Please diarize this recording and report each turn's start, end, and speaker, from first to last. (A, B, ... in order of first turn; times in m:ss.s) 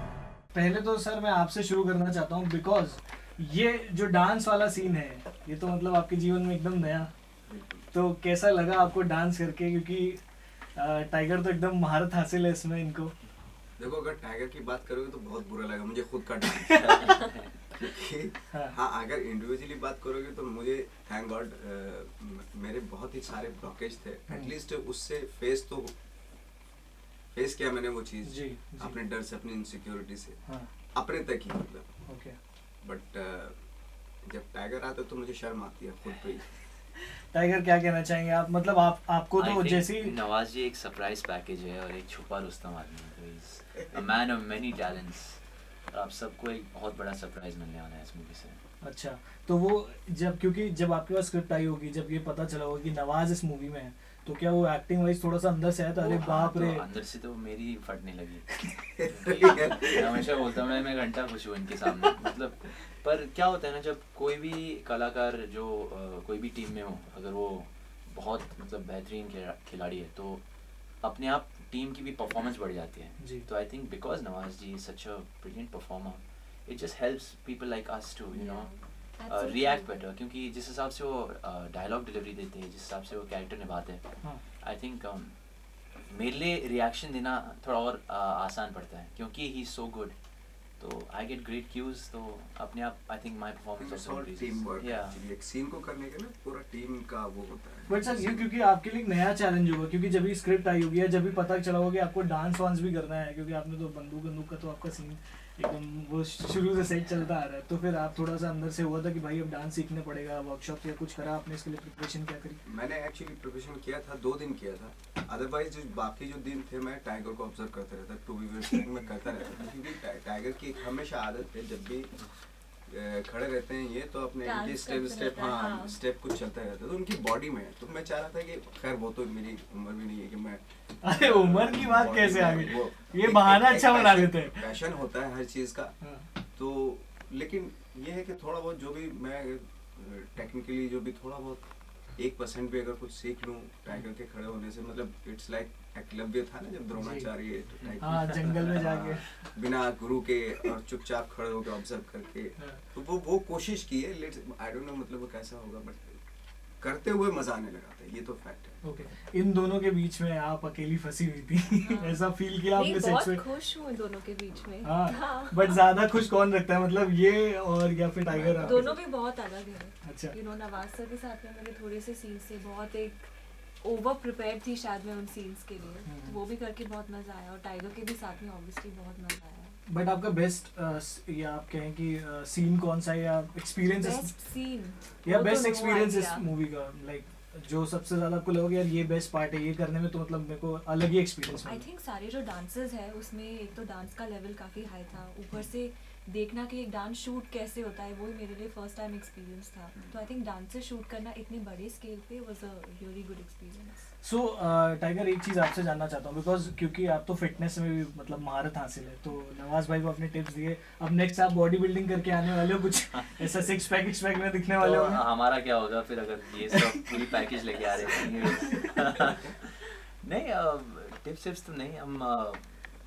0:00.5-0:07.1 A
0:07.5-0:07.9 B
0:07.9-0:10.2 A
0:10.8-0:13.1 A
0:13.8-0:17.2 B
0:16.7-0:17.6 C
0:17.7-0:25.9 B
0:24.3-0:24.5 A
0:27.3-0:30.4 B
0:28.2-0:29.0 A
0:30.9-0:31.9 B
0:32.1-0:32.4 A
0:32.8-0:33.6 B
0:34.2-0:36.6 B
0:37.1-0:40.2 A
0:39.4-0:48.6 C
0:48.8-0:56.9 A
0:56.0-0:58.6 C
0:59.0-1:00.3 B
0:59.1-1:10.4 C
1:11.0-1:18.7 C
1:13.2-1:13.5 A
1:18.3-1:20.0 D
1:19.3-1:24.0 C
1:24.6-1:25.4 C
1:26.0-1:30.2 C
1:30.8-1:35.2 C
1:33.8-1:38.5 B
1:37.9-1:52.6 A
1:52.6-2:02.3 B
2:02.9-2:16.0 B
2:04.4-2:06.0 D
2:11.0-2:14.7 A
2:16.0-2:16.3 A
2:16.6-2:21.6 B
2:22.2-2:36.2 B
2:27.0-2:27.3 A
2:28.0-2:29.4 A
2:32.6-2:32.8 A
2:36.8-2:38.8 B
2:38.8-2:43.4 A
2:41.8-2:42.2 D
2:42.7-2:45.8 D
2:44.8-2:48.8 A
2:48.3-2:49.0 B
2:48.6-2:59.8 D
2:50.0-2:50.4 A
2:56.1-2:56.4 A
2:59.9-3:04.3 A
3:04.0-3:06.5 D
3:05.2-3:11.8 A
3:11.6-3:24.1 D
3:24.2-3:35.2 A
3:33.1-3:33.7 C
3:34.8-3:42.8 C